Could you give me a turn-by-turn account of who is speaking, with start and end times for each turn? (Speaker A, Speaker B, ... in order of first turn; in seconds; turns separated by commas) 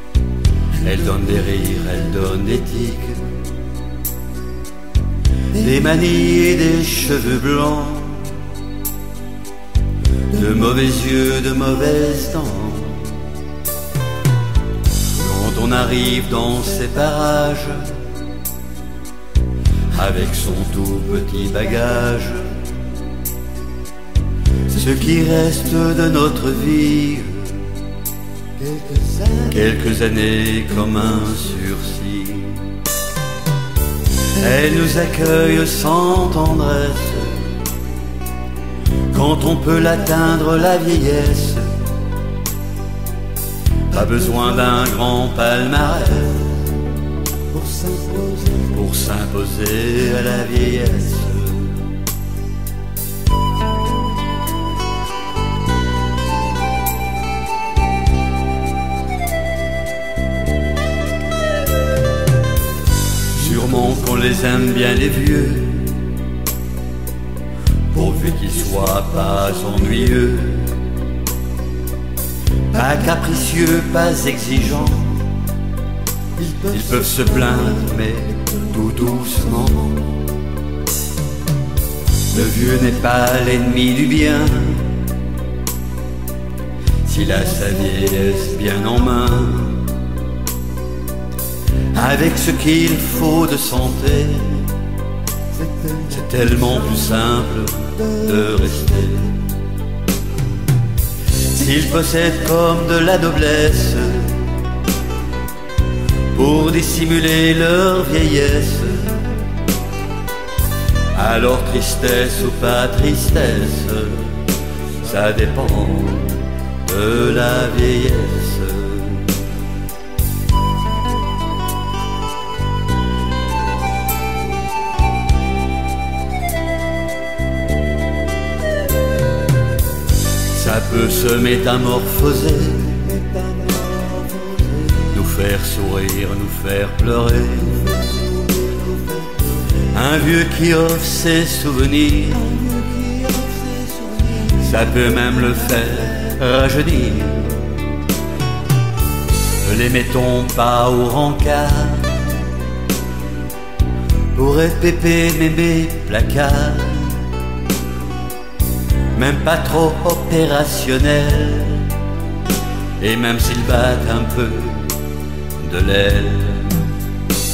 Speaker A: 0.8-3.4, Speaker A: 5.5-8.5, Speaker A: 10.3-13.3, Speaker A: 15.2-18.1, Speaker A: 19.9-22.6, Speaker A: 24.7-27.8, Speaker A: 29.2-32.9, Speaker A: 34.4-37.7, Speaker A: 39.1-41.8, Speaker A: 43.9-46.6, Speaker A: 47.6-52.0, Speaker A: 63.4-66.2, Speaker A: 67.9-71.0, Speaker A: 72.7-75.3, Speaker A: 76.4-80.1, Speaker A: 82.3-85.2, Speaker A: 87.0-90.1, Speaker A: 91.9-94.8, Speaker A: 95.8-99.5, Speaker A: 101.4-104.5, Speaker A: 106.3-109.3, Speaker A: 111.1-114.5, Speaker A: 115.0-119.5, Speaker A: 130.5-138.2, Speaker A: 139.8-147.8, Speaker A: 149.6-152.6, Speaker A: 154.3-157.3, Speaker A: 159.1-162.0, Speaker A: 163.0-165.0, Speaker A: 165.6-166.9